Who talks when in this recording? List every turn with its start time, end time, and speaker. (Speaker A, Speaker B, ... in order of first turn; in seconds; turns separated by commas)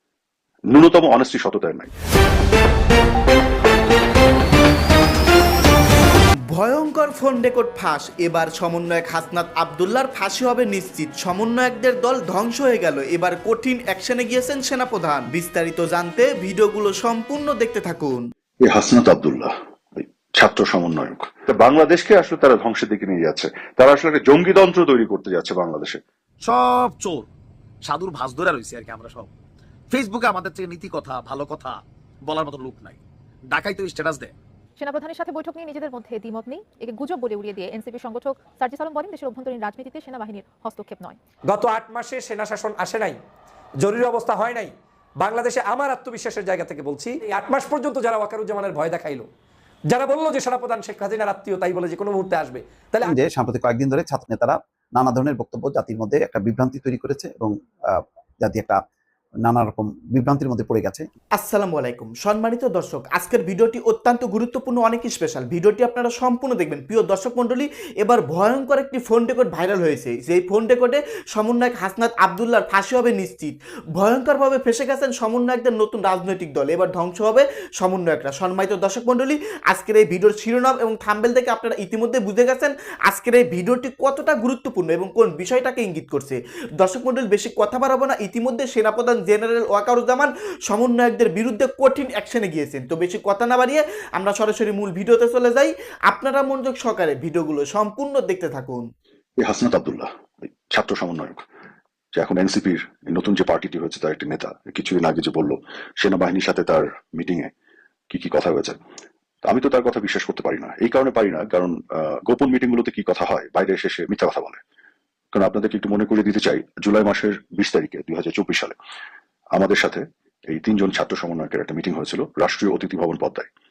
Speaker A: 0.7-1.9, Speaker B: 6.5-18.2, Speaker A: 18.6-26.0, Speaker C: 26.4-27.3, Speaker C: 27.9-29.3, Speaker C: 29.9-33.0, Speaker C: 33.5-34.3, Speaker D: 34.8-41.2, Speaker E: 41.5-43.2, Speaker E: 43.8-44.7, Speaker E: 45.2-49.3, Speaker E: 49.9-53.1, Speaker F: 53.0-58.8, Speaker F: 59.5-61.0, Speaker B: 61.4-98.9, Speaker A: 99.4-101.4, Speaker A: 102.1-107.5, Speaker A: 108.1-108.8, Speaker A: 109.5-114.6, Speaker A: 115.3-118.8, Speaker A: 119.5-123.5